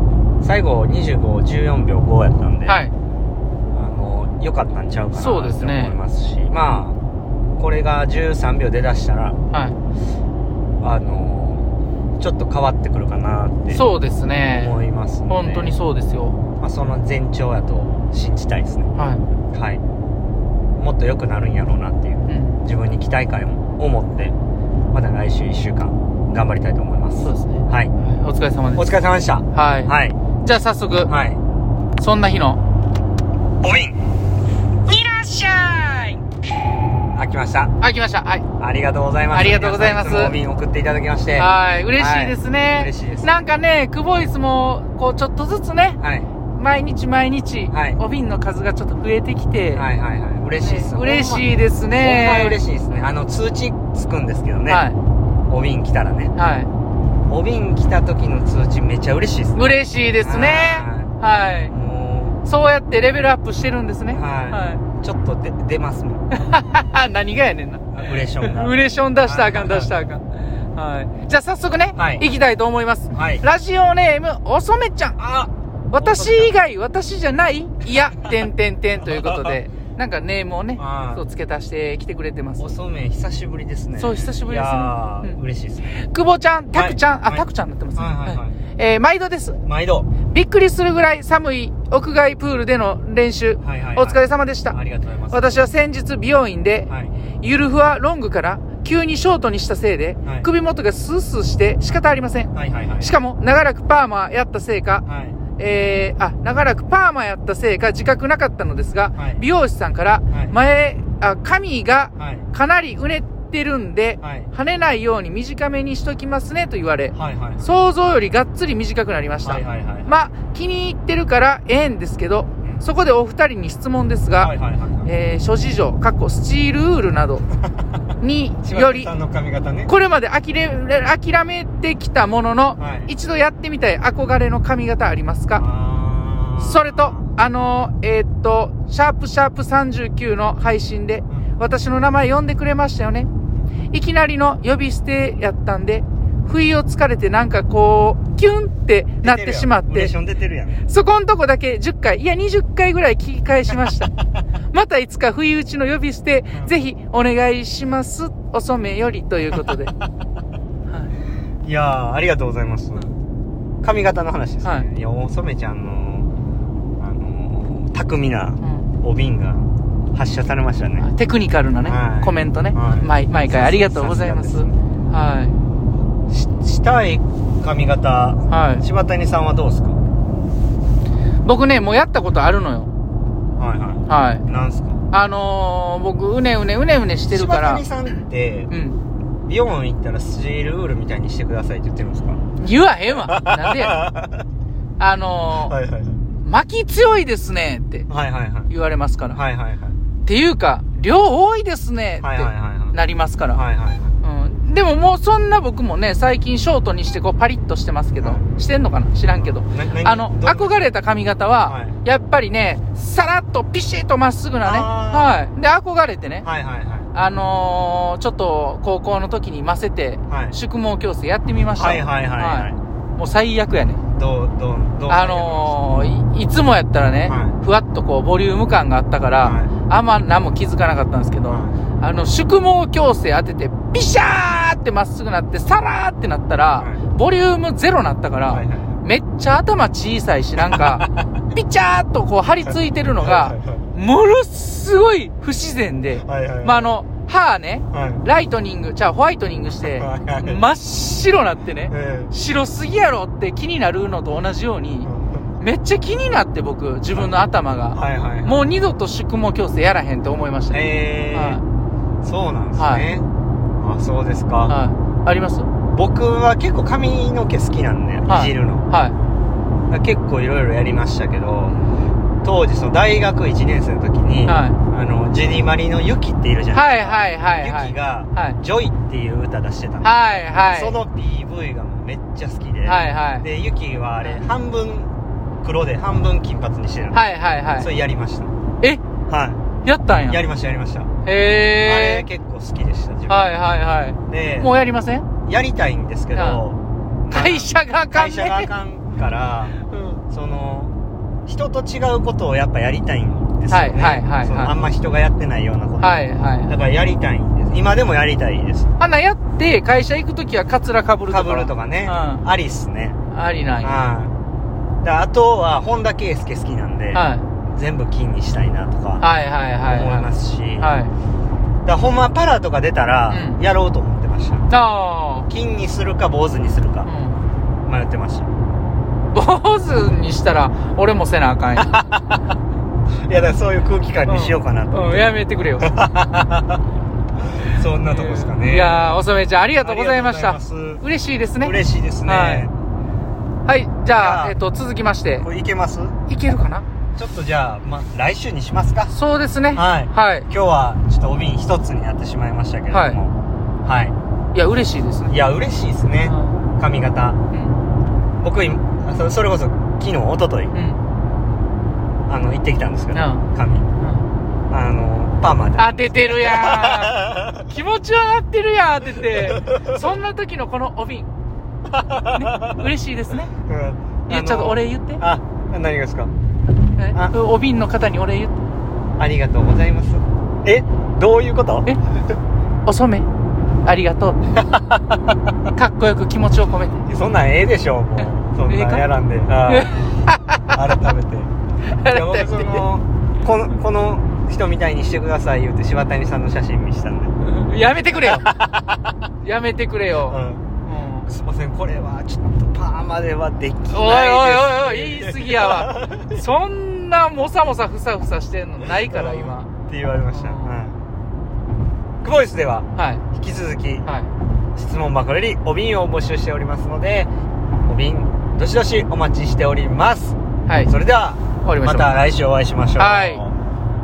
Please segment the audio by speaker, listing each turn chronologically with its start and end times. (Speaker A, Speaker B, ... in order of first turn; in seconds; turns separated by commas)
Speaker A: 0.4-2.8, Speaker B: 2.6-2.9, Speaker A: 3.7-7.0, Speaker B: 5.2-5.9, Speaker A: 7.6-9.4, Speaker B: 9.5-9.8, Speaker A: 10.8-13.8, Speaker B: 13.7-14.8, Speaker A: 14.5-15.7, Speaker B: 15.3-16.4, Speaker A: 16.6-18.9, Speaker B: 18.9-19.2, Speaker A: 19.5-19.8, Speaker A: 20.8-24.3, Speaker B: 22.3-22.6, Speaker A: 24.9-27.9, Speaker B: 27.2-28.9, Speaker A: 28.8-30.2, Speaker B: 29.5-31.1, Speaker A: 31.1-31.4, Speaker B: 32.0-32.6, Speaker A: 33.6-34.0, Speaker B: 34.8-36.2, Speaker A: 37.1-37.7, Speaker B: 37.8-38.5, Speaker A: 38.6-43.3, Speaker B: 39.3-40.4, Speaker B: 41.4-46.0, Speaker A: 46.0-46.3, Speaker B: 46.5-49.9, Speaker A: 47.7-48.0, Speaker A: 49.7-54.9, Speaker B: 50.6-52.6, Speaker B: 54.7-55.0, Speaker A: 55.5-56.3, Speaker B: 56.3-56.7, Speaker A: 57.3-61.1, Speaker B: 59.5-61.7, Speaker A: 61.7-62.4, Speaker B: 62.4-64.8, Speaker A: 64.1-66.3, Speaker B: 66.3-75.2, Speaker A: 67.9-69.9, Speaker A: 72.0-72.2, Speaker A: 73.1-73.4, Speaker A: 75.2-76.5, Speaker B: 75.9-82.7, Speaker A: 79.0-79.5, Speaker A: 80.8-81.2, Speaker A: 82.6-86.0, Speaker B: 84.0-85.4, Speaker B: 85.9-89.6, Speaker A: 86.7-88.6, Speaker A: 89.7-90.1, Speaker B: 90.2-94.8, Speaker A: 93.6-95.6, Speaker B: 95.3-96.9, Speaker A: 96.9-97.1, Speaker B: 97.4-105.0, Speaker A: 101.8-103.2, Speaker A: 105.0-105.4, Speaker B: 105.6-124.5, Speaker A: 109.1-109.4, Speaker A: 110.3-110.5, Speaker A: 112.2-112.5, Speaker A: 114.2-114.5, Speaker A: 117.1-117.7, Speaker A: 119.4-120.1, Speaker A: 124.4-125.1, Speaker B: 125.0-127.5, Speaker A: 127.7-128.0, Speaker B: 128.2-129.1, Speaker A: 128.6-129.9, Speaker B: 129.9-135.6, Speaker A: 132.8-133.1, Speaker A: 135.6-137.3, Speaker B: 136.6-143.3, Speaker B: 143.9-150.1, Speaker A: 149.2-150.8, Speaker B: 150.8-154.1, Speaker B: 154.7-159.9, Speaker A: 161.6-163.1, Speaker A: 163.8-166.3, Speaker B: 164.6-164.9, Speaker A: 167.0-171.1, Speaker B: 168.6-168.9, Speaker B: 171.0-175.5, Speaker A: 171.8-174.7, Speaker A: 176.3-180.0, Speaker B: 178.5-178.8, Speaker B: 181.4-182.9, Speaker A: 183.6-185.0, Speaker B: 184.1-184.4, Speaker B: 185.1-187.8, Speaker A: 187.3-188.7, Speaker B: 188.7-189.0, Speaker A: 189.4-192.4, Speaker B: 192.6-194.0, Speaker A: 193.1-194.4, Speaker B: 195.0-195.7, Speaker A: 195.6-196.2, Speaker B: 196.4-198.1, Speaker A: 198.1-198.7, Speaker B: 198.7-199.4, Speaker A: 199.3-199.9, Speaker B: 200.2-203.6, Speaker A: 202.2-203.0, Speaker A: 203.5-204.2, Speaker B: 204.2-216.4, Speaker A: 208.2-208.5, Speaker A: 209.3-210.8, Speaker A: 211.7-211.9, Speaker A: 214.6-215.4, Speaker A: 216.4-217.1, Speaker B: 217.1-224.0, Speaker A: 220.3-220.6, Speaker A: 221.8-222.8, Speaker A: 224.1-225.8, Speaker B: 225.1-255.1, Speaker A: 227.2-227.6, Speaker A: 229.4-229.7, Speaker A: 231.5-231.8, Speaker A: 236.8-237.0, Speaker A: 238.5-239.0, Speaker A: 240.6-241.4, Speaker A: 243.2-243.8, Speaker A: 246.2-246.9, Speaker A: 247.9-248.2, Speaker A: 249.8-250.6, Speaker A: 251.9-252.3, Speaker A: 255.0-255.4, Speaker B: 255.6-261.6, Speaker A: 257.9-258.6, Speaker A: 260.7-261.6, Speaker A: 262.2-263.2, Speaker B: 262.8-263.1, Speaker A: 263.8-264.7, Speaker B: 264.7-265.7, Speaker A: 265.9-268.9, Speaker B: 268.3-269.1, Speaker A: 269.9-271.7, Speaker A: 272.4-280.2, Speaker B: 274.4-274.8, Speaker B: 276.7-278.6, Speaker B: 280.0-281.0, Speaker A: 280.7-287.2, Speaker B: 282.9-283.5, Speaker B: 287.1-287.9, Speaker A: 287.8-288.5, Speaker A: 289.3-289.6, Speaker B: 289.8-290.4, Speaker A: 290.2-291.1, Speaker B: 291.2-292.2, Speaker A: 291.8-293.5, Speaker B: 293.3-295.3, Speaker A: 294.3-294.7, Speaker A: 295.4-299.8, Speaker B: 296.3-296.6, Speaker B: 297.3-298.7, Speaker B: 299.9-300.2, Speaker A: 300.3-300.9, Speaker A: 301.4-308.9, Speaker B: 303.7-304.7, Speaker B: 306.0-306.7, Speaker B: 309.0-312.4, Speaker A: 311.3-313.2, Speaker B: 313.3-313.9, Speaker A: 313.8-314.3, Speaker A: 315.0-319.2, Speaker B: 317.1-317.4, Speaker B: 319.2-321.1, Speaker A: 319.8-320.9, Speaker A: 321.8-324.7, Speaker B: 323.3-323.6, Speaker B: 324.7-325.5, Speaker A: 325.5-327.1, Speaker B: 327.0-327.4, Speaker A: 327.9-328.5, Speaker B: 329.3-332.0, Speaker A: 331.8-332.4, Speaker A: 333.2-336.8, Speaker B: 334.3-335.9, Speaker A: 337.6-339.1, Speaker B: 338.1-342.7, Speaker A: 339.8-341.0, Speaker A: 341.6-342.7, Speaker B: 343.6-345.4, Speaker A: 344.1-344.5, Speaker A: 345.4-346.1, Speaker B: 346.3-346.8, Speaker A: 347.1-349.1, Speaker B: 349.1-350.5, Speaker A: 349.7-353.3, Speaker B: 352.9-353.2, Speaker A: 353.8-354.1, Speaker B: 354.5-355.3, Speaker A: 355.3-357.4, Speaker B: 356.2-356.6, Speaker B: 357.5-357.8, Speaker A: 358.4-360.7, Speaker B: 360.7-361.0, Speaker A: 362.3-363.9, Speaker B: 363.1-363.4, Speaker B: 364.0-364.3, Speaker A: 364.7-367.7, Speaker B: 365.8-371.3, Speaker A: 369.3-369.9, Speaker A: 371.9-372.9, Speaker B: 372.3-373.5, Speaker A: 373.6-376.3, Speaker B: 374.3-375.2, Speaker B: 376.9-378.6, Speaker A: 379.2-381.9, Speaker B: 382.9-383.3, Speaker B: 383.8-384.4, Speaker A: 384.5-385.3, Speaker B: 385.7-387.0, Speaker A: 387.1-389.9, Speaker B: 388.7-389.1, Speaker B: 389.7-390.7, Speaker A: 390.7-391.5, Speaker B: 391.8-392.8, Speaker A: 392.0-397.3, Speaker B: 397.4-398.5, Speaker A: 398.1-399.0, Speaker B: 399.4-401.3, Speaker A: 400.3-400.7, Speaker A: 401.3-406.4, Speaker B: 403.9-409.7, Speaker A: 408.8-411.0, Speaker B: 410.3-410.8, Speaker A: 412.2-414.1, Speaker B: 412.9-413.2, Speaker A: 414.7-417.3, Speaker A: 417.9-423.5, Speaker B: 420.7-420.9, Speaker B: 421.6-422.1, Speaker B: 423.0-423.4